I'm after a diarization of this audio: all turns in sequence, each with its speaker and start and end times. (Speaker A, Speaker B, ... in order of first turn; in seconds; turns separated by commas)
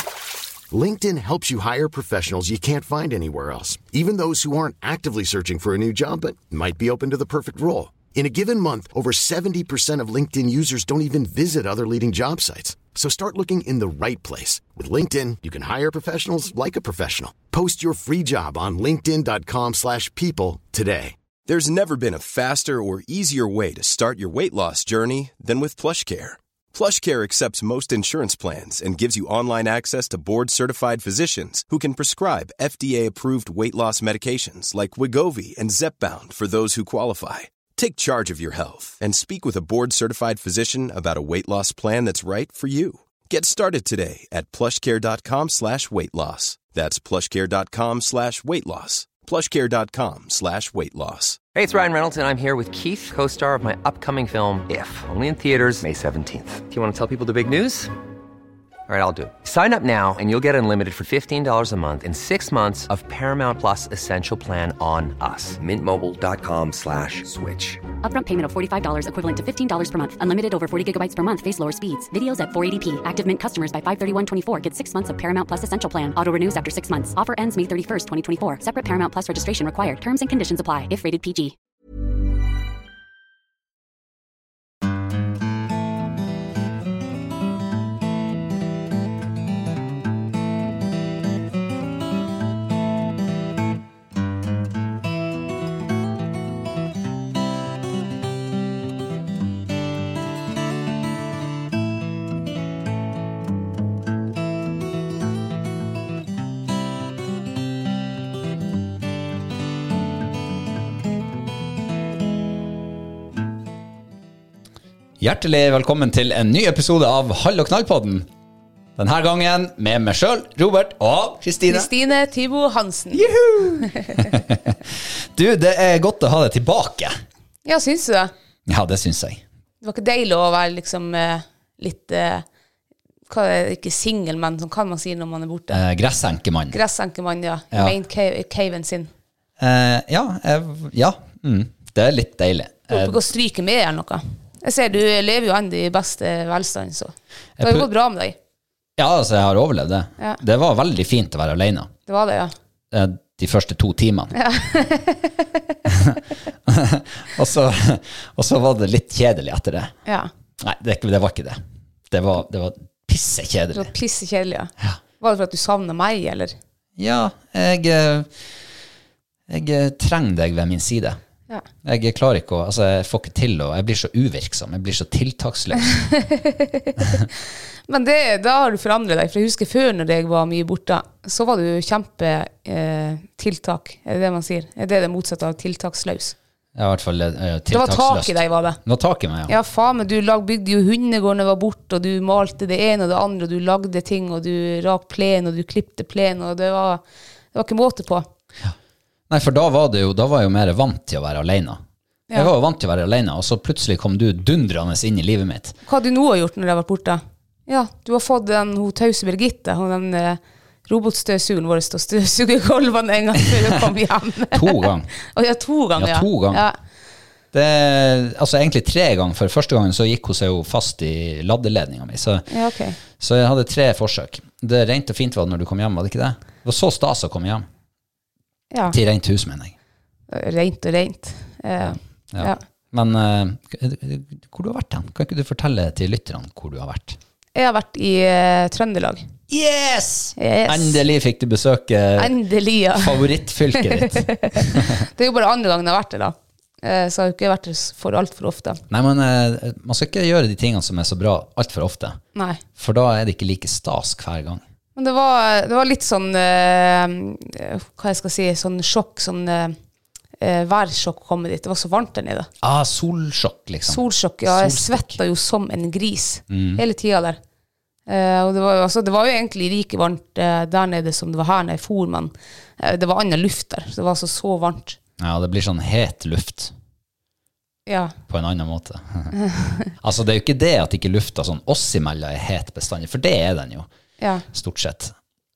Speaker A: 0.7-21.2, Speaker B: 21.5-51.4, Speaker C: 51.5-57.9, Speaker C: 58.9-67.8, Speaker D: 68.0-81.5, Speaker E: 115.2-118.3, Speaker E: 119.0-121.9, Speaker F: 121.7-124.3, Speaker E: 123.1-127.1, Speaker F: 127.7-128.3, Speaker E: 128.7-129.4, Speaker F: 129.8-132.4, Speaker F: 133.3-135.8, Speaker E: 135.7-136.8, Speaker F: 136.7-139.1, Speaker E: 139.6-143.2, Speaker F: 142.9-148.4, Speaker E: 147.6-147.9, Speaker E: 149.0-151.9, Speaker F: 152.1-152.5, Speaker E: 152.9-154.3, Speaker F: 154.3-155.5, Speaker E: 155.9-159.9, Speaker E: 160.6-163.9, Speaker F: 163.7-166.6, Speaker E: 167.0-168.3, Speaker E: 169.5-171.2, Speaker E: 171.8-176.0, Speaker F: 175.9-177.3, Speaker F: 177.9-186.4, Speaker E: 186.8-189.5, Speaker F: 187.7-188.8, Speaker F: 189.5-197.0, Speaker F: 197.5-198.3, Speaker E: 199.3-201.8, Speaker E: 202.3-205.8, Speaker F: 205.9-216.8, Speaker E: 214.5-215.1, Speaker E: 216.0-216.7, Speaker E: 217.5-222.5, Speaker F: 222.5-223.0, Speaker E: 223.1-227.7, Speaker E: 228.9-229.8, Speaker F: 230.3-232.6, Speaker E: 232.3-237.2, Speaker F: 237.6-239.2, Speaker E: 239.5-242.3, Speaker F: 240.4-241.0, Speaker F: 242.2-248.8, Speaker E: 242.9-245.0, Speaker E: 248.9-252.2, Speaker F: 252.3-252.6, Speaker E: 252.8-254.6, Speaker F: 255.0-259.8, Speaker F: 260.4-262.5, Speaker E: 262.6-265.2, Speaker F: 263.9-267.4, Speaker E: 266.5-266.8, Speaker F: 268.1-275.0, Speaker E: 275.2-276.7, Speaker F: 277.9-278.1, Speaker E: 278.3-279.3, Speaker F: 279.5-279.9, Speaker E: 280.0-283.9, Speaker F: 284.2-284.5, Speaker E: 284.5-285.1